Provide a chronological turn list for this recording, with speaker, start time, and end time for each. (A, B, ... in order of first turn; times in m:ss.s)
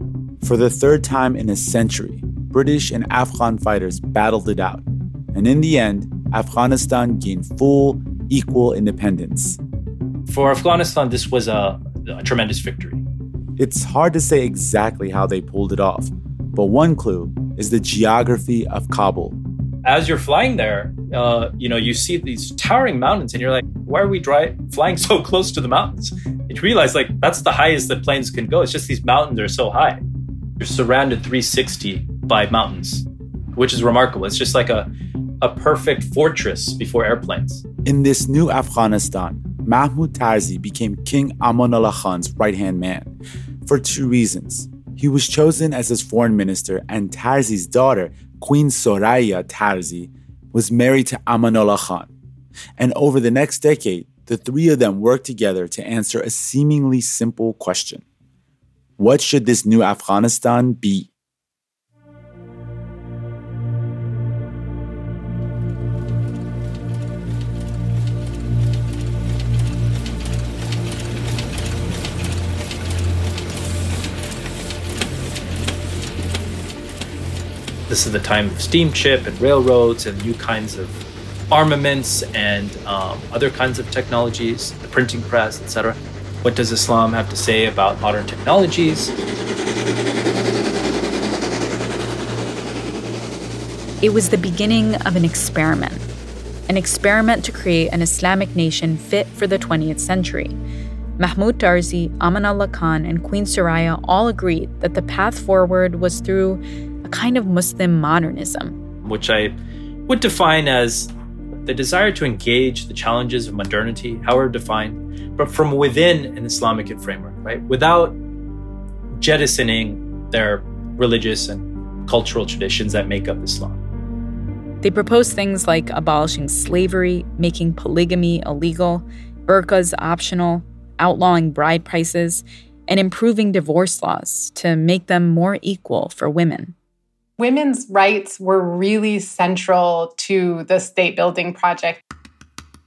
0:00.4-0:09.6 A
0:10.3-0:13.0 B
0:13.6-0:19.4 A
0:19.8-0:30.0 B
0:30.6-0:33.0 B
0:33.6-0:34.9 B
0:35.4-0:37.6 B
0:37.8-0:43.1 A
0:43.6-0:52.1 A
0:52.8-0:58.0 A
0:59.0-1:01.1 A
1:17.9-1:21.0 B
1:21.5-1:29.1 B
1:34.0-1:36.0 C
1:36.7-1:40.6 C
1:41.2-1:48.8 C
1:49.0-1:49.6 B
1:50.1-1:51.1 B
1:51.6-1:58.2 B
1:59.1-2:03.8 B
2:04.8-2:16.7 C
2:17.4-2:22.0 D